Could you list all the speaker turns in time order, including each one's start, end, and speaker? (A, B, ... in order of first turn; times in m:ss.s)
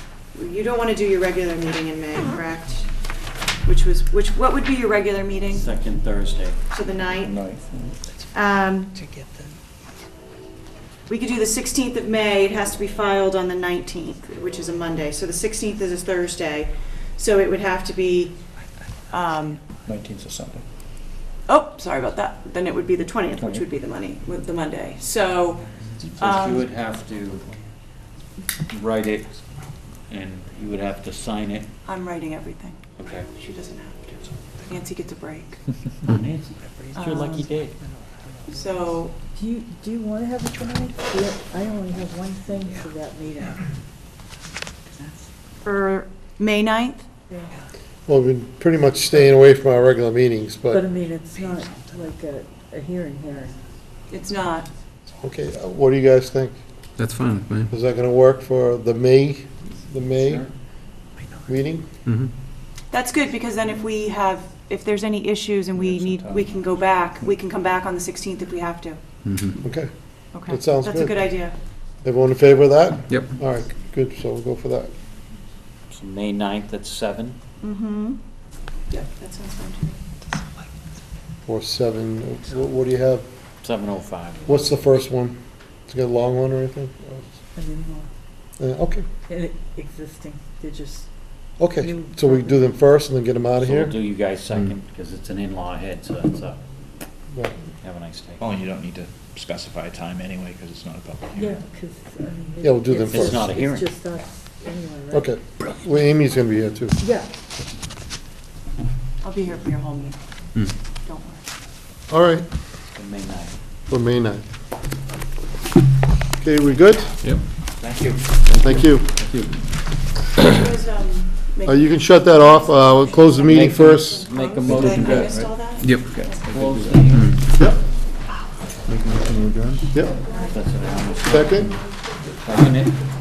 0:00.3-0:02.9 A
0:03.6-0:05.7 A
0:05.5-0:06.6 B
0:06.7-0:07.3 A
0:07.2-0:07.5 C
0:07.2-0:07.9 D
0:08.3-0:08.9 A
0:11.1-0:18.4 A
0:19.1-0:19.6 A
0:19.9-0:20.6 D
0:19.9-0:20.6 C
0:21.4-0:26.6 A
0:26.1-0:27.5 B
0:28.7-0:29.3 B
0:30.1-0:31.7 B
0:31.8-0:35.7 A
0:33.0-0:33.3 B
0:36.0-0:37.8 B
0:38.5-0:39.2 A
0:39.3-0:43.6 E
0:45.6-0:47.0 A
0:48.1-0:50.8 F
0:50.7-0:53.6 E
0:54.1-0:54.7 A
0:55.2-0:56.6 F
0:57.0-0:57.7 C
0:57.7-1:00.5 F
1:01.5-1:01.8 F
1:02.9-1:09.0 A
1:06.2-1:06.5 B
1:09.3-1:09.5 C
1:09.6-1:09.9 F
1:10.3-1:11.6 A
1:10.4-1:11.2 F
1:12.0-1:14.9 F
1:15.9-1:17.4 B
1:17.6-1:18.2 A
1:18.9-1:20.0 A
1:21.4-1:23.2 F
1:23.6-1:24.6 B
1:24.4-1:27.3 F
1:27.6-1:28.1 E
1:28.6-1:29.0 F
1:29.3-1:31.1 E
1:31.6-1:33.9 F
1:31.8-1:32.5 E
1:33.6-1:36.6 B
1:37.8-1:38.4 B
1:38.4-1:41.6 D
1:41.4-1:45.3 E
1:42.6-1:43.4 F
1:43.1-1:43.9 B
1:45.1-1:47.0 F
1:47.0-1:47.2 E
1:49.2-1:50.2 A
1:51.0-1:51.4 A
1:52.1-1:52.4 F
1:52.8-1:53.6 B
1:53.9-1:54.4 F
1:56.4-1:57.1 F
1:57.8-1:58.3 B
1:58.5-1:59.1 F
2:00.4-2:06.3 A
2:01.7-2:04.3 F
2:03.4-2:07.5 B
2:05.8-2:06.1 C
2:05.8-2:07.3 D
2:08.9-2:09.8 D
2:08.9-2:09.6 C
2:09.9-2:10.2 F
2:10.3-2:11.8 B
2:11.3-2:11.8 F
2:12.4-2:13.0 B